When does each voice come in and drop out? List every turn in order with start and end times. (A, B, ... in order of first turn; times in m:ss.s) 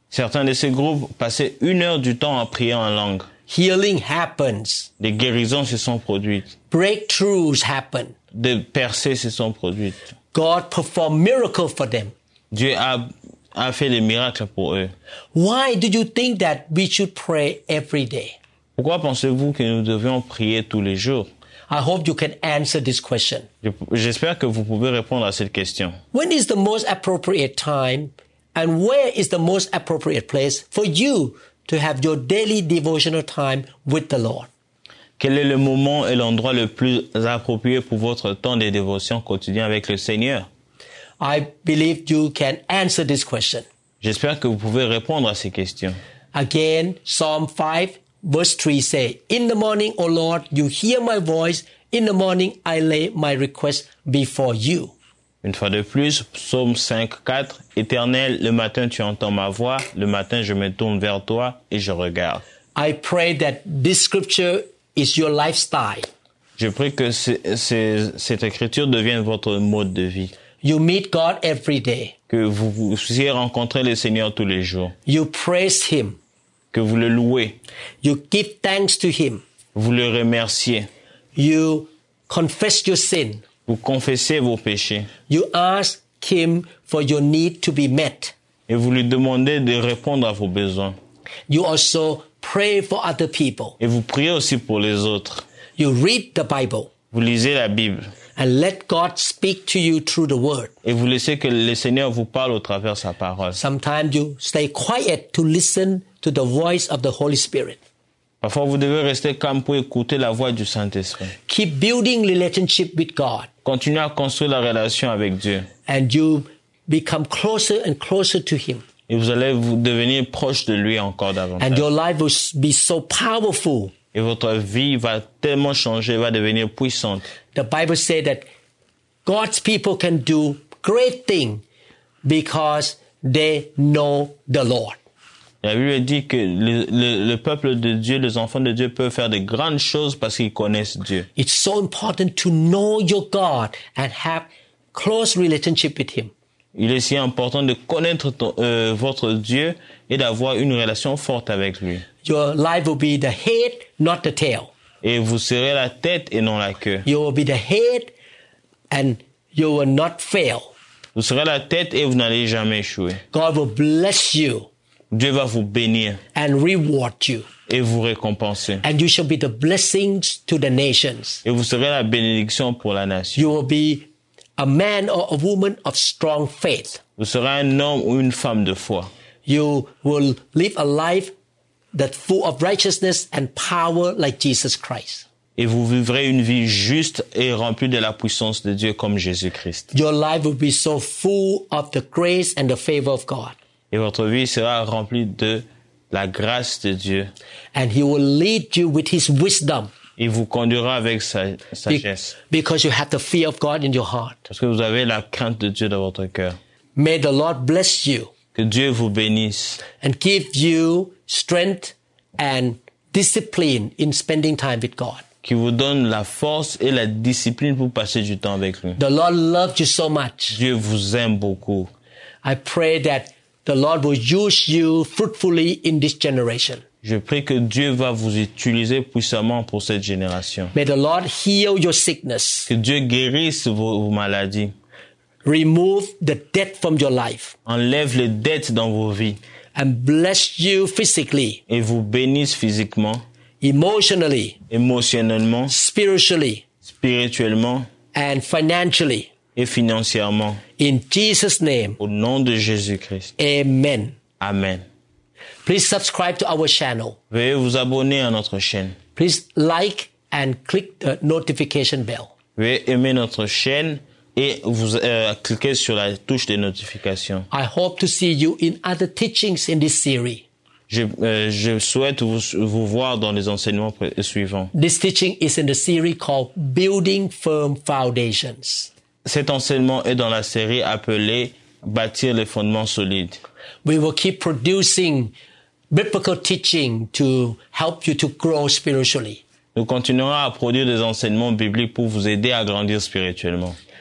0:00.1-0:03.3 A
0:03.5-0:04.9 B
0:05.0-0:06.5 A
0:06.7-0:08.1 B
0:08.3-0:10.0 A
0:10.3-0:12.1 B
0:12.5-0:14.9 A
0:15.3-0:18.4 B
0:18.8-0:21.3 A
0:21.7-0:23.5 B
0:23.6-0:26.0 A
0:26.1-0:34.5 B
0:35.2-0:40.5 A
0:41.2-0:43.6 B
0:44.0-0:46.0 A
0:46.3-0:54.9 B
0:55.4-1:02.4 A
1:02.7-1:06.1 B
1:06.6-1:10.3 A
1:10.6-1:12.1 B
1:12.3-1:14.9 A
1:15.0-1:16.2 B
1:16.7-1:17.6 A
1:18.0-1:19.4 B
1:19.7-1:20.9 A
1:21.3-1:23.4 B
1:23.7-1:25.1 A
1:25.3-1:28.3 B
1:28.7-1:31.0 A
1:31.5-1:33.8 B
1:33.8-1:35.4 A
1:35.8-1:36.9 B
1:37.1-1:38.1 A
1:38.4-1:40.7 B
1:40.8-1:43.6 A
1:43.5-1:47.8 B
1:48.4-1:51.3 A
1:51.5-1:53.5 B
1:53.6-1:55.7 A
1:55.9-1:58.8 B
1:59.1-2:01.9 A
2:01.6-2:03.9 B
2:04.1-2:07.3 A
2:07.5-2:08.4 B
2:09.2-2:11.6 B
2:12.2-2:15.0 B
2:15.6-2:21.3 A
2:21.4-2:26.3 B
2:26.7-2:32.0 A
2:32.2-2:34.7 B
2:35.0-2:37.0 A
2:37.0-2:38.1 B
2:38.9-2:40.7 B
2:41.1-2:43.2 A
2:43.3-2:44.7 B
2:45.1-2:46.2 A
2:46.3-2:47.5 B
2:47.7-2:48.8 A
2:48.8-2:51.4 B
2:51.4-2:53.5 A
2:53.3-2:57.0 B
2:57.2-2:59.1 A
2:59.4-3:01.3 B
3:01.9-3:05.2 B
3:05.6-3:09.9 A
3:09.9-3:13.6 B
3:13.9-3:17.3 A
3:17.7-3:19.9 B
3:20.2-3:22.3 A
3:21.9-3:24.5 B
3:24.5-3:26.6 A
3:27.0-3:28.3 B
3:28.5-3:29.8 A
3:29.9-3:35.2 B
3:35.4-3:39.0 A
3:39.0-3:40.6 B
3:40.5-3:41.9 A
3:42.4-3:46.8 B
3:47.0-3:50.7 A
3:50.7-3:52.7 B
3:52.7-3:54.7 A
3:55.4-3:57.5 B
3:57.6-3:59.4 A
3:59.7-4:01.6 B
4:01.7-4:03.2 A
4:03.6-4:04.6 B
4:04.7-4:05.7 A
4:05.7-4:06.6 B
4:06.8-4:07.9 A
4:08.1-4:09.3 B
4:09.6-4:10.6 A
4:10.8-4:12.0 B
4:12.0-4:13.3 A
4:13.4-4:14.2 B
4:14.4-4:14.8 A
4:15.6-4:17.2 B
4:17.3-4:19.0 A
4:19.2-4:22.3 B
4:22.6-4:27.5 A
4:27.5-4:30.4 B
4:30.9-4:34.7 A
4:34.7-4:38.9 B
4:39.2-4:43.4 A
4:43.8-4:45.3 B
4:45.9-4:49.4 B
4:49.7-4:53.8 A